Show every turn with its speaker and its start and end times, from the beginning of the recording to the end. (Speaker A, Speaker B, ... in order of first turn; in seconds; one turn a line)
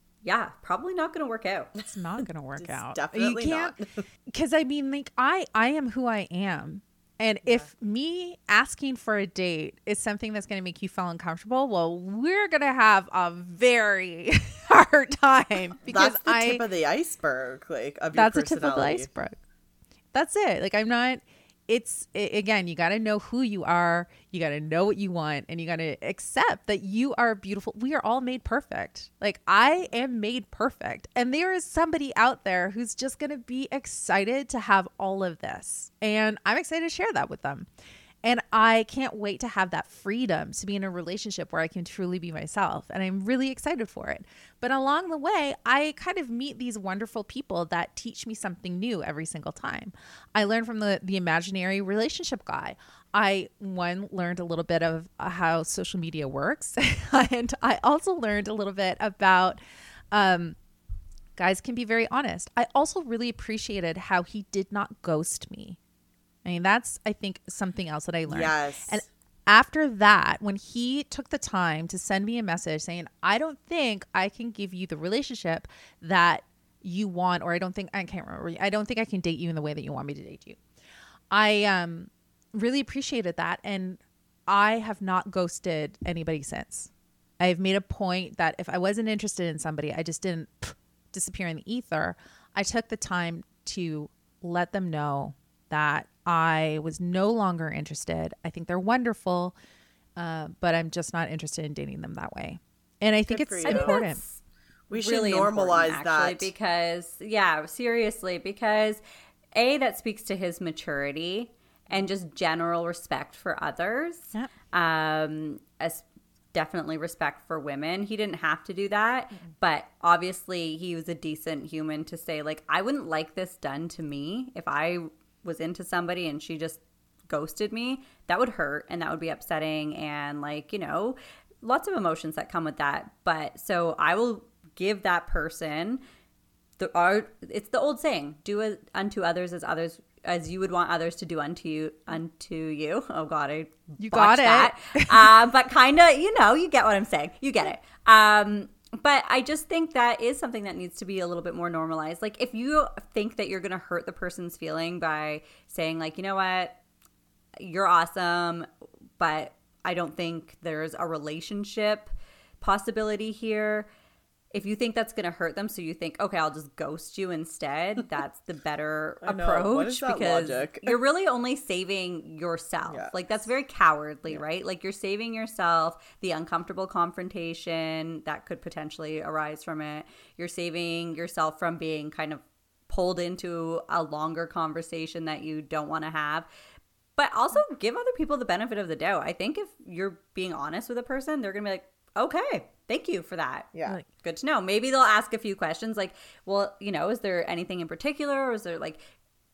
Speaker A: 0.2-1.7
Speaker B: 1.8-3.8
Speaker C: 2.6-4.0
Speaker B: 4.3-16.6
Speaker C: 15.8-19.1
Speaker B: 18.1-19.4
Speaker B: 20.1-37.7
Speaker B: 38.2-59.6
Speaker B: 60.1-60.6
Speaker B: 61.4-65.8
Speaker B: 66.5-80.6
Speaker C: 68.3-69.0
Speaker B: 81.3-99.5
Speaker B: 100.2-104.2
Speaker C: 103.3-104.0
Speaker A: 103.7-104.4
Speaker C: 104.9-106.5
Speaker A: 104.9-109.0
Speaker A: 109.5-116.0
Speaker A: 116.5-136.0
Speaker A: 136.8-156.8
Speaker B: 144.0-145.3
Speaker A: 157.6-158.7
Speaker A: 159.2-163.9
Speaker A: 164.5-186.5
Speaker C: 169.2-171.0
Speaker C: 172.9-173.2
Speaker A: 187.2-199.0